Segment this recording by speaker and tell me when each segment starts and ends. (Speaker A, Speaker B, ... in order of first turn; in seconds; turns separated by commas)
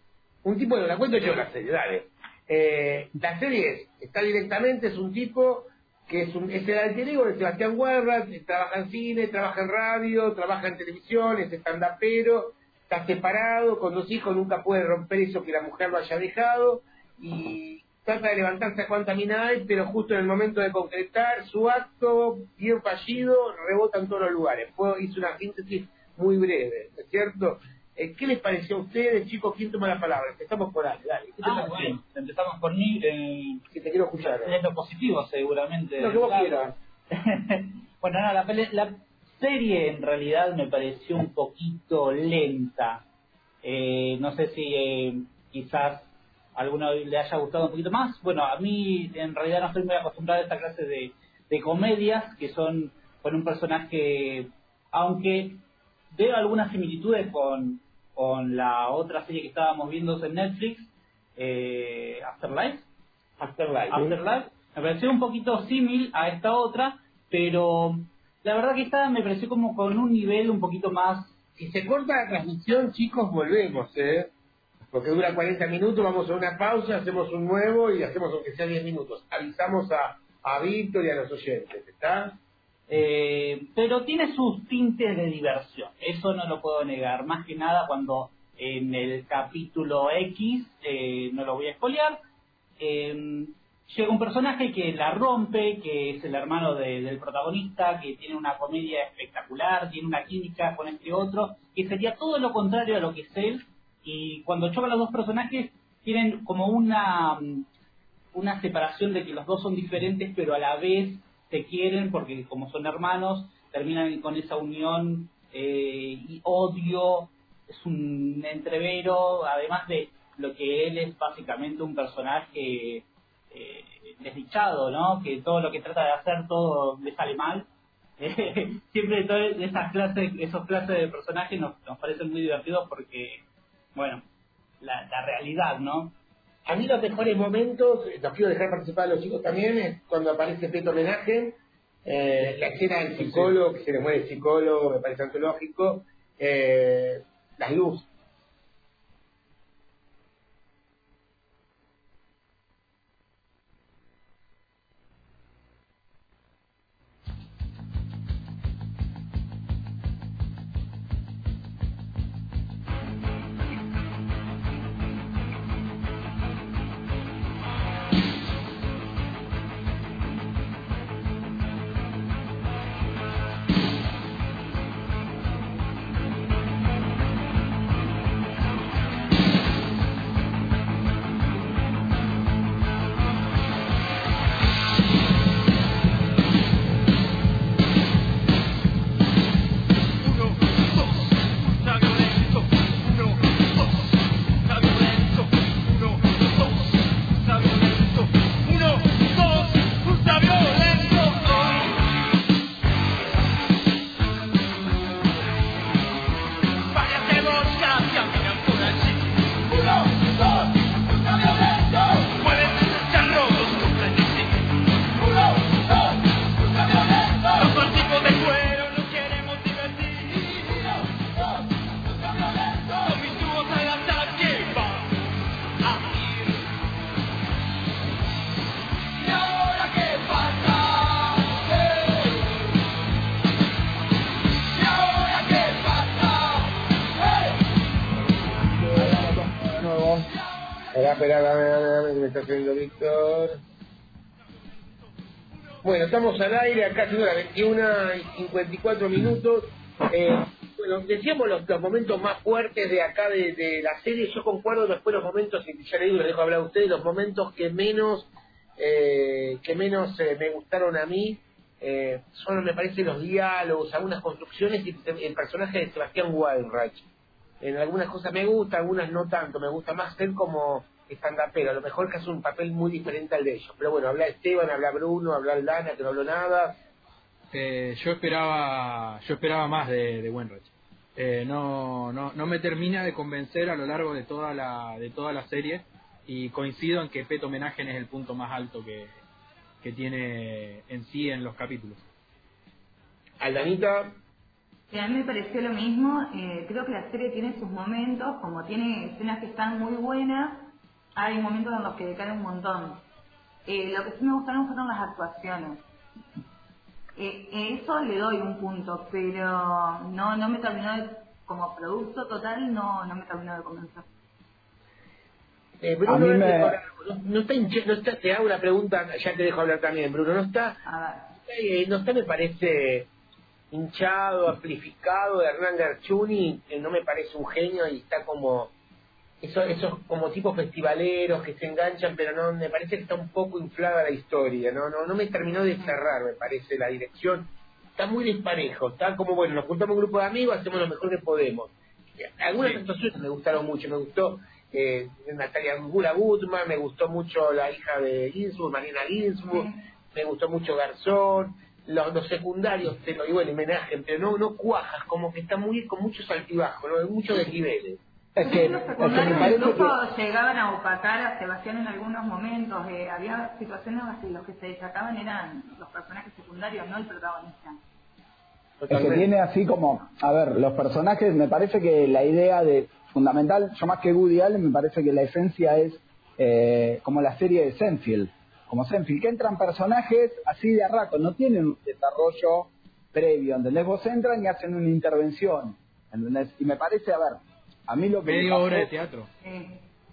Speaker A: 0.4-32.0, Speaker B: 31.4-33.6, Speaker A: 33.7-34.5, Speaker B: 34.2-43.0, Speaker A: 36.0-36.7, Speaker B: 43.6-62.9, Speaker A: 63.4-64.2, Speaker B: 63.9-71.3, Speaker A: 71.6-74.3, Speaker A: 74.9-82.4, Speaker B: 82.9-92.2, Speaker B: 92.8-107.7, Speaker B: 108.3-127.7, Speaker B: 128.2-133.4, Speaker B: 133.9-134.2, Speaker B: 134.8-136.1, Speaker A: 136.7-148.1, Speaker B: 206.9-209.3, Speaker B: 212.1-214.7, Speaker B: 217.1-220.9, Speaker B: 222.8-225.1, Speaker B: 225.8-226.6, Speaker C: 238.8-240.3, Speaker A: 240.9-243.6, Speaker A: 245.8-267.1, Speaker A: 267.6-276.8, Speaker D: 277.5-289.1, Speaker D: 289.8-292.0, Speaker A: 293.4-294.2, Speaker E: 294.9-303.0, Speaker E: 303.7-305.8, Speaker E: 307.2-314.1, Speaker A: 315.8-320.8, Speaker C: 316.1-316.8, Speaker E: 320.8-321.3, Speaker A: 321.5-323.1, Speaker A: 323.7-328.7, Speaker A: 329.4-358.0, Speaker E: 349.5-349.8, Speaker C: 358.4-360.0, Speaker E: 358.4-367.8, Speaker A: 368.8-369.3, Speaker C: 368.9-388.9, Speaker D: 388.2-389.3, Speaker E: 389.4-389.8